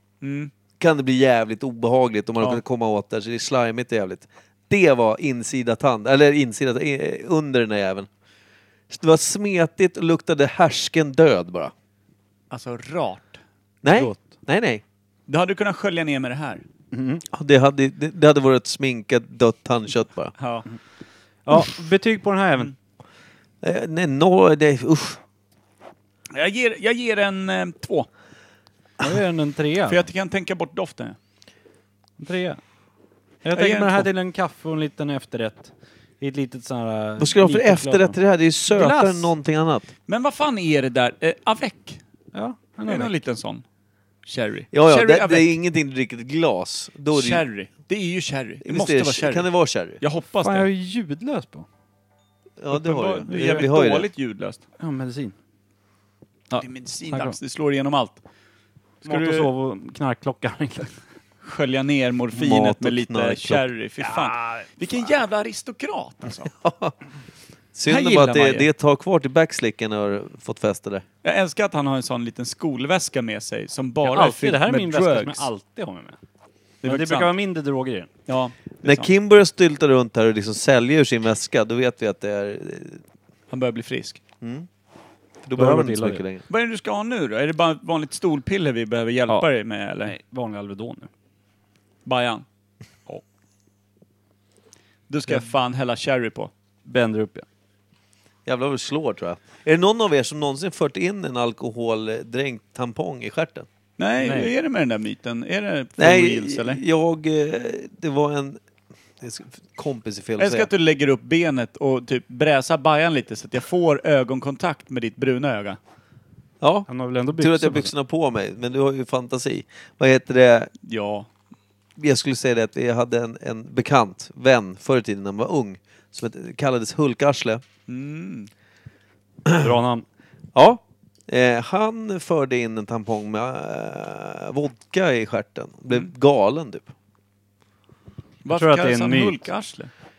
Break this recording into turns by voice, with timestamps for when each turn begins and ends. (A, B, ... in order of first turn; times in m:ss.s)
0:00.2-0:00.5 A
0:00.8-0:08.1 B
0:08.9-0:11.7 B
0:12.5-0:13.4 A
0:13.8-0:14.8 B
0:13.9-0:14.3 C
0:15.3-0:16.6 A
0:16.9-0:17.2 C
0:17.3-0:20.3 B
0:20.4-0:20.7 A
0:21.5-0:22.7 C
0:23.6-0:25.2 B
0:26.3-0:28.1 A
0:29.0-0:30.1 C
0:29.9-0:31.2 A
0:32.2-0:32.6 C
0:33.4-0:38.2 C
0:33.5-0:34.1 A
0:37.2-0:39.9 B
0:38.7-0:39.3 C
0:40.1-0:42.0 A
0:42.3-0:43.1 C
0:42.9-0:43.6 A
0:44.3-0:45.5 A
0:44.7-0:47.4 B
0:47.1-0:49.5 A
0:48.6-0:50.0 B
0:50.0-0:50.7 A
0:50.4-0:51.7 C
0:52.6-0:54.1 B
0:52.7-0:54.6 A
0:53.3-0:53.7 C
0:54.8-0:55.4 C
0:56.5-0:57.4 C
0:56.6-0:58.2 A
0:59.0-0:59.5 A
0:59.0-1:00.9 C
1:01.4-1:06.5 A
1:02.4-1:03.7 B
1:04.2-1:04.7 C
1:06.6-1:07.0 B
1:07.7-1:11.0 B
1:07.9-1:08.7 A
1:11.2-1:15.5 A
1:14.0-1:16.2 C
1:16.8-1:17.3 A
1:16.8-1:18.1 C
1:18.3-1:19.1 A
1:18.8-1:23.0 B
1:23.5-1:24.2 A
1:24.4-1:24.7 B
1:25.4-1:26.4 B
1:25.6-1:26.2 C
1:26.5-1:30.2 A
1:30.0-1:31.1 C
1:32.0-1:32.4 A
1:35.1-1:36.5 A
1:36.9-1:37.4 C
1:38.5-1:43.7 B
1:44.0-1:46.8 A
1:44.2-1:44.5 C
1:46.0-1:48.6 B
1:49.2-1:50.7 B
1:50.4-1:55.8 A
1:56.6-2:00.7 B
1:56.9-1:57.9 C
2:00.8-2:01.3 A
2:02.0-2:07.6 B
2:07.9-2:08.5 A
2:09.6-2:10.1 C
2:10.6-2:16.9 B
2:18.4-2:19.9 A
2:18.5-2:19.5 C